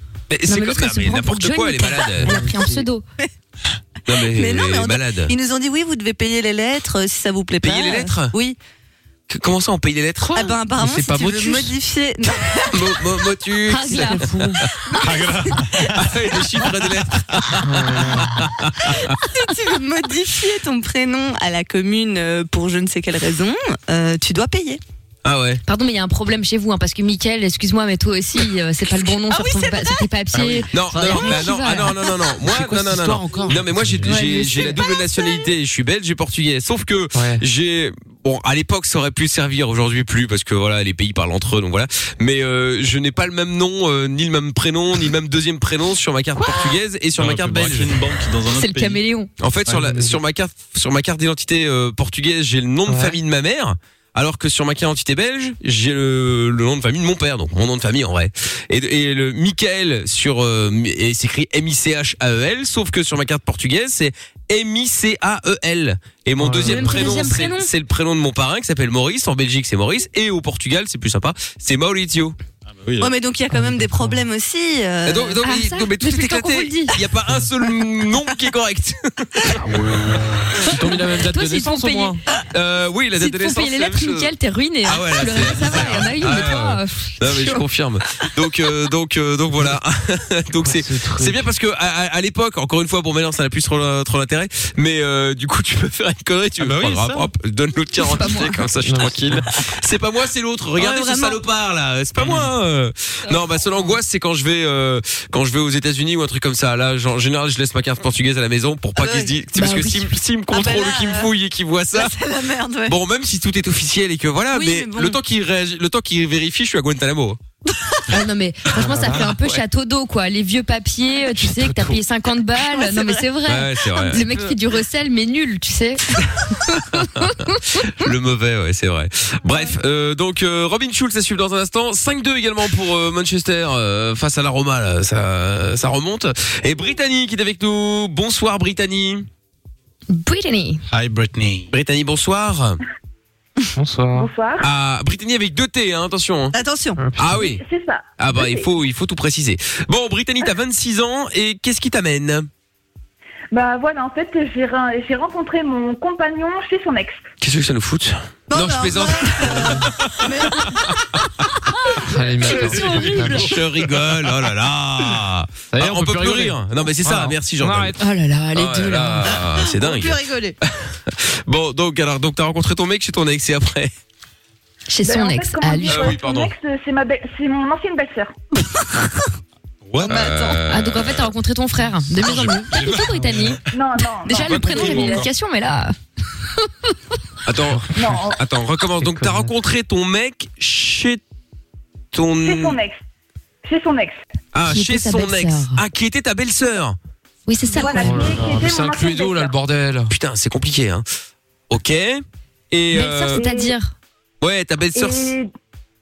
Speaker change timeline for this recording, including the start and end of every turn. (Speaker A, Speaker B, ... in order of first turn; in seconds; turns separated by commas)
Speaker A: 0.3-2.4, Speaker B: 0.5-3.0, Speaker A: 4.1-5.3, Speaker C: 4.2-8.6, Speaker A: 7.6-8.3, Speaker A: 9.3-10.4, Speaker D: 10.2-11.7, Speaker C: 10.3-12.8, Speaker A: 12.7-14.4, Speaker B: 13.7-14.6, Speaker D: 14.0-14.5, Speaker C: 15.0-15.9, Speaker E: 15.1-15.7, Speaker A: 15.9-19.1, Speaker D: 17.7-18.3, Speaker C: 19.2-24.8, Speaker A: 25.2-25.6, Speaker B: 25.6-32.0, Speaker C: 29.1-30.1, Speaker A: 30.7-48.0, Speaker D: 30.9-31.7, Speaker D: 32.4-34.4, Speaker B: 34.0-34.8, Speaker D: 37.1-37.4, Speaker B: 46.4-46.7, Speaker E: 47.1-49.0, Speaker B: 48.4-49.3, Speaker A: 49.4-72.3, Speaker D: 49.7-50.1, Speaker D: 52.9-53.1, Speaker D: 66.4-66.9, Speaker B: 66.6-67.7, Speaker E: 72.7-73.1, Speaker C: 73.0-75.4, Speaker A: 75.0-79.5, Speaker B: 75.4-76.9, Speaker E: 79.6-80.5, Speaker D: 80.6-82.2, Speaker B: 81.2-82.2, Speaker A: 82.5-84.3, Speaker B: 83.2-87.6, Speaker A: 84.8-112.1, Speaker D: 90.6-91.4, Speaker E: 96.6-97.3, Speaker B: 98.0-98.6, Speaker D: 98.8-99.4, Speaker C: 100.8-101.4, Speaker E: 102.2-102.5, Speaker C: 109.0-109.3, Speaker B: 109.5-110.1, Speaker C: 110.5-111.3, Speaker C: 111.9-113.0, Speaker A: 112.9-117.4, Speaker C: 114.5-115.2, Speaker B: 118.1-127.6, Speaker D: 118.8-119.2, Speaker C: 122.5-123.3, Speaker A: 123.5-124.2, Speaker C: 124.0-124.5, Speaker A: 128.0-139.3, Speaker B: 140.1-140.8, Speaker E: 140.9-141.7, Speaker A: 141.7-142.8, Speaker D: 143.8-144.3, Speaker F: 144.1-144.7, Speaker A: 144.6-146.5, Speaker C: 146.5-147.0, Speaker D: 147.0-147.4, Speaker A: 147.2-147.6, Speaker F: 147.3-148.7, Speaker A: 148.2-152.5, Speaker F: 153.5-157.2, Speaker A: 157.4-160.8, Speaker C: 158.5-160.8, Speaker D: 162.0-163.5, Speaker C: 162.4-163.3, Speaker B: 162.5-163.2, Speaker A: 162.5-167.9, Speaker D: 165.7-168.0, Speaker B: 168.0-169.3, Speaker A: 168.5-170.2, Speaker C: 169.3-170.6, Speaker A: 170.8-173.9, Speaker B: 174.9-176.2, Speaker F: 175.0-178.3, Speaker A: 175.9-176.5, Speaker E: 179.8-180.4, Speaker A: 180.0-181.3, Speaker B: 180.0-183.6, Speaker E: 182.2-183.6, Speaker F: 183.7-185.3, Speaker B: 184.2-185.9, Speaker E: 184.4-185.3, Speaker A: 187.4-191.2, Speaker D: 187.8-188.2, Speaker F: 187.9-188.4, Speaker D: 189.0-189.5, Speaker A: 192.1-192.8, Speaker F: 192.4-193.0, Speaker F: 193.6-194.2, Speaker A: 194.5-197.0, Speaker B: 194.7-195.8, Speaker B: 197.5-198.4, Speaker F: 197.7-199.5, Speaker D: 197.8-200.1, Speaker A: 200.1-201.0, Speaker A: 201.7-203.4, Speaker B: 202.9-203.9, Speaker F: 203.3-203.7, Speaker A: 204.4-205.3, Speaker F: 204.9-205.5